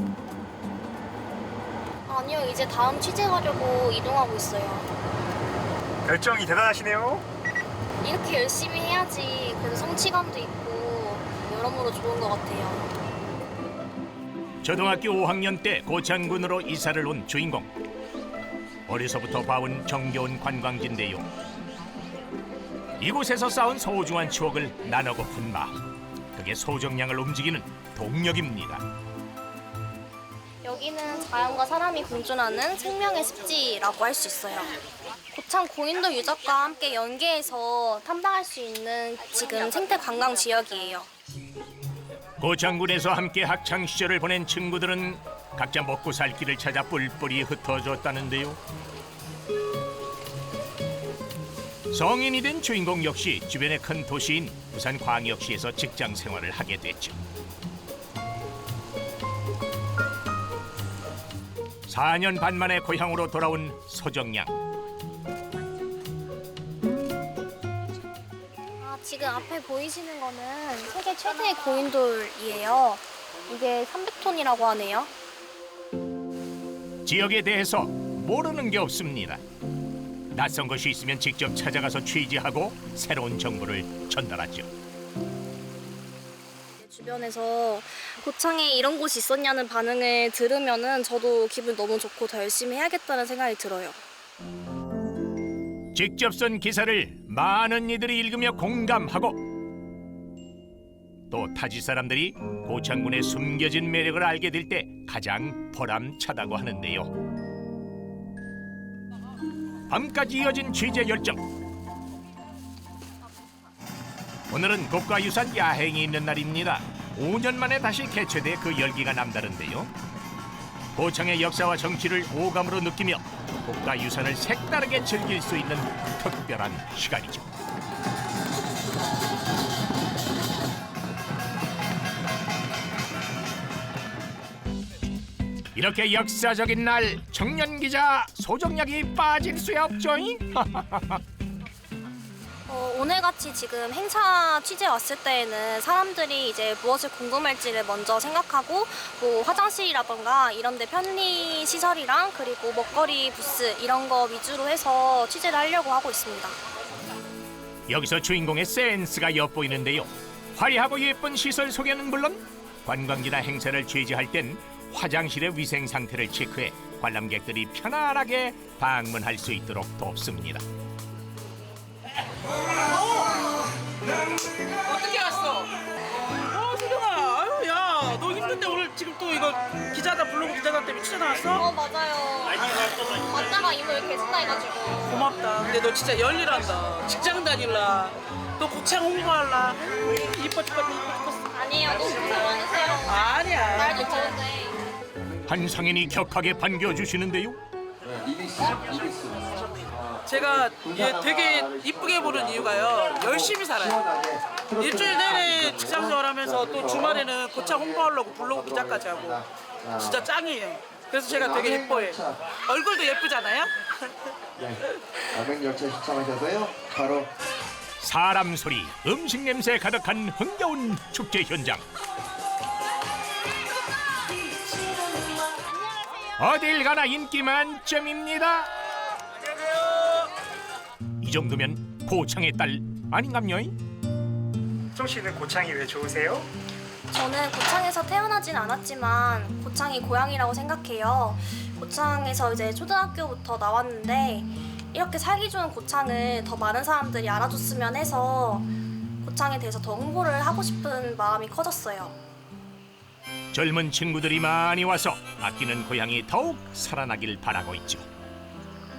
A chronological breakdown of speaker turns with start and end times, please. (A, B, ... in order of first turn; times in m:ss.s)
0:02.1-0:04.9 A
0:06.0-0:07.2 B
0:08.0-0:12.9 A
0:14.6-0:17.7 C
0:18.9-0:21.3 C
0:23.0-0:25.8 C
0:26.4-0:28.8 C
0:30.6-0:34.8 A
0:35.3-0:41.1 A
0:42.4-0:48.6 C
0:51.9-0:57.2 C
1:01.9-1:04.5 C
1:08.8-1:15.1 A
1:17.1-1:19.4 C
1:20.3-1:24.7 C
1:26.8-1:34.0 A
1:35.9-1:39.4 C
1:41.3-1:47.1 C
1:49.9-1:51.4 C
1:54.5-1:59.9 C
2:01.0-2:07.5 C
2:15.8-2:21.2 C
2:22.7-2:36.6 A
2:37.9-2:50.6 C
2:54.8-2:55.7 D
2:56.3-3:01.7 D
3:01.5-3:05.1 A
3:05.0-3:11.5 D
3:11.5-3:14.8 A
3:13.0-3:14.2 D
3:15.5-3:17.6 C
3:18.1-3:30.3 E
3:20.2-3:24.1 D
3:24.7-3:29.5 D
3:30.0-3:33.7 D
3:31.3-3:32.4 E
3:35.3-3:37.3 E
3:38.0-3:41.8 C
3:46.4-3:48.7 C
3:51.2-3:53.8 C
3:55.0-3:56.5 B
3:57.1-4:08.7 A
4:09.2-4:12.2 A
4:13.5-4:18.0 C